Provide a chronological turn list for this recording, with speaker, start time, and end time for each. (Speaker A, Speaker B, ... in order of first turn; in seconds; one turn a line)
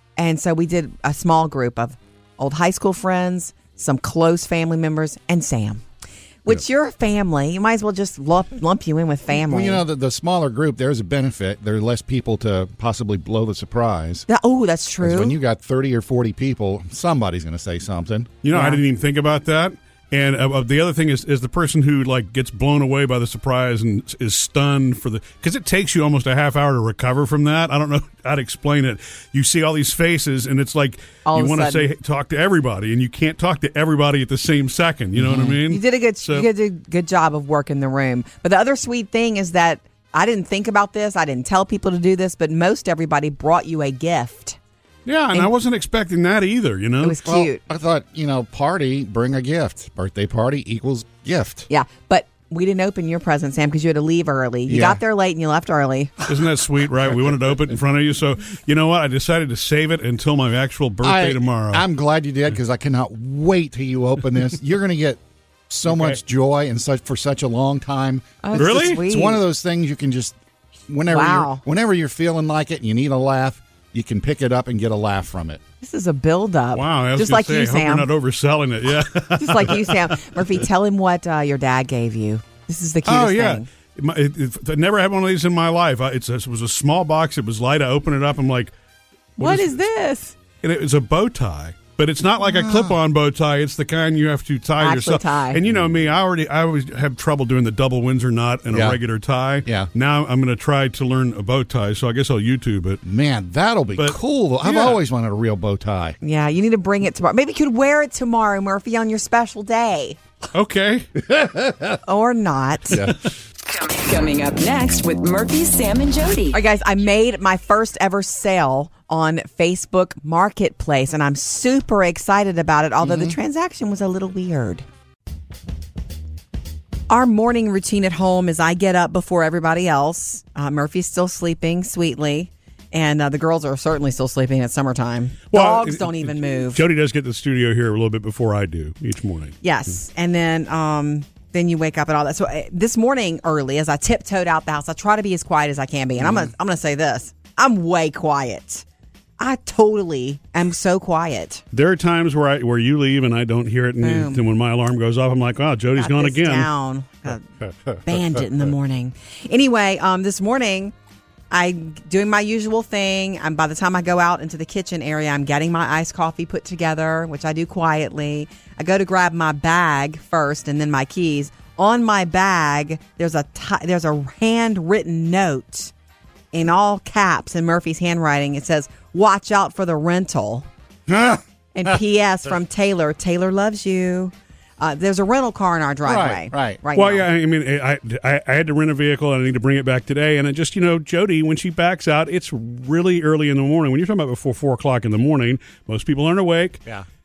Speaker A: 0.2-5.8
Speaker A: 6.5-9.8
Speaker B: 9.3-14.3
Speaker A: 14.3-15.4
Speaker B: 15.0-18.4
Speaker C: 18.4-36.5
Speaker A: 18.5-18.8
Speaker A: 31.2-31.9
Speaker B: 35.2-35.6
Speaker A: 35.6-44.6
Speaker C: 45.1-47.2
Speaker A: 47.0-47.6
Speaker B: 47.2-51.7
Speaker A: 51.7-56.1
Speaker B: 54.7-55.0
Speaker C: 56.2-61.8
Speaker B: 61.0-70.4
Speaker C: 65.9-66.2
Speaker A: 68.4-69.4
Speaker C: 68.6-69.0
Speaker B: 70.9-75.6
Speaker A: 71.1-71.6
Speaker A: 75.8-78.1
Speaker C: 76.7-80.6
Speaker A: 79.4-83.7
Speaker C: 83.0-88.7
Speaker C: 89.4-89.8
Speaker A: 89.4-90.3
Speaker C: 90.6-103.0
Speaker B: 92.5-93.0
Speaker A: 94.8-95.6
Speaker B: 98.7-99.0
Speaker B: 103.0-106.2
Speaker C: 104.0-105.0
Speaker A: 106.2-110.2
Speaker C: 110.5-111.1
Speaker B: 111.3-112.0
Speaker A: 112.0-113.1
Speaker B: 112.9-113.3
Speaker D: 113.6-116.6
Speaker A: 116.5-124.8
Speaker B: 123.0-123.4
Speaker A: 127.1-136.8
Speaker C: 135.5-139.6
Speaker A: 139.6-148.8
Speaker B: 146.2-146.5
Speaker A: 149.4-151.6
Speaker C: 151.7-156.7
Speaker A: 154.0-154.4
Speaker A: 156.0-157.4
Speaker B: 157.6-158.4
Speaker A: 158.0-160.9
Speaker A: 161.5-175.9
Speaker A: 176.5-180.7
Speaker B: 181.1-182.0
Speaker A: 181.8-187.3
Speaker B: 186.1-186.8
Speaker C: 186.9-196.8